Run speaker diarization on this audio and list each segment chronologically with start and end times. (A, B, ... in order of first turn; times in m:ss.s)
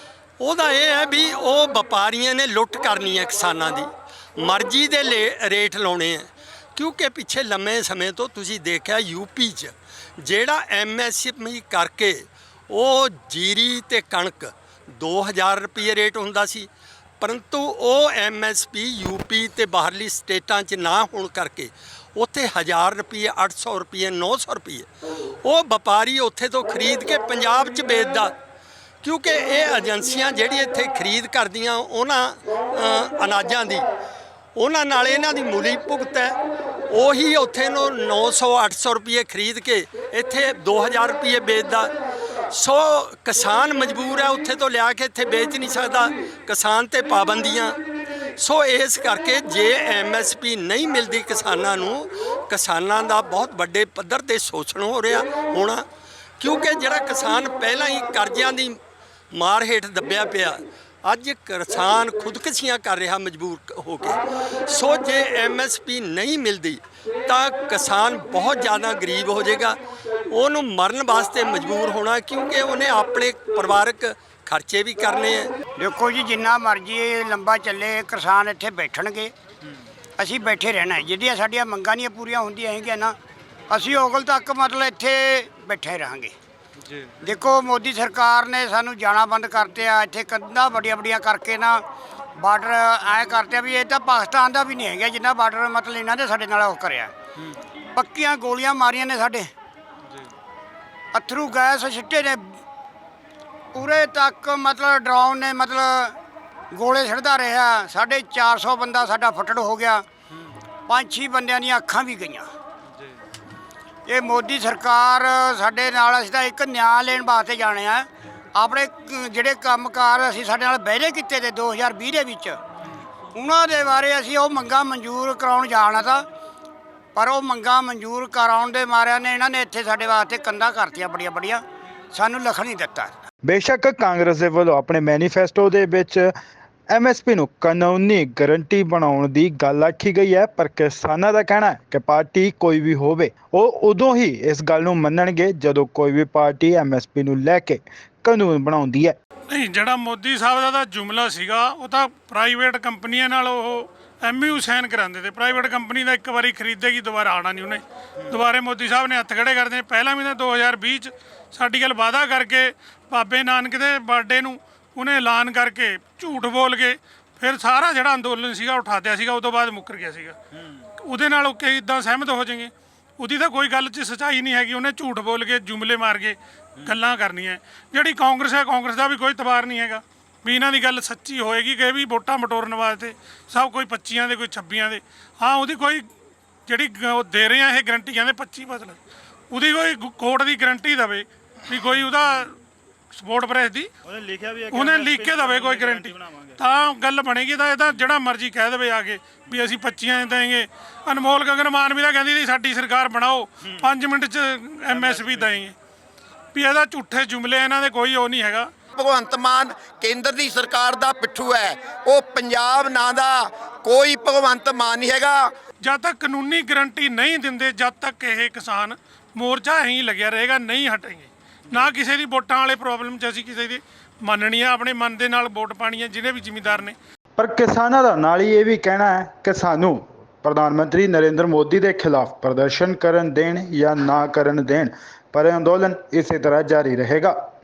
0:00.4-0:16.7 A
0:17.2-0:24.9 A
0:25.4-0:28.3 A
0:29.0-0:33.8 A
0:34.5-0:36.4 A
0:36.9-0:41.9 A
0:42.5-0:47.8 A
0:48.4-0:55.8 A
0:56.4-0:58.8 A
0:59.3-1:09.8 A
1:10.3-1:15.5 A
1:15.8-1:19.3 B
1:20.2-1:23.1 B
1:23.7-1:26.3 B
1:27.2-1:31.8 B
1:32.4-1:37.1 B
1:38.0-1:39.5 B
1:41.1-1:42.4 B
1:43.7-1:46.1 B
1:46.7-1:50.0 B
1:50.9-1:52.5 B
1:54.1-2:02.6 B
2:03.3-2:06.2 B
2:07.2-2:11.6 B
2:12.1-2:13.1 B
2:13.5-2:16.3 C
2:16.9-2:29.1 C
2:29.5-2:50.4 D
2:51.0-3:06.1 D
3:06.7-3:09.0 D
3:09.5-3:12.6 D
3:13.1-3:13.9 D
3:14.1-3:16.5 C
3:14.7-3:25.8 D
3:26.5-3:28.7 D
3:29.0-3:35.5 E
3:35.8-3:46.9 D
3:47.4-3:57.3 C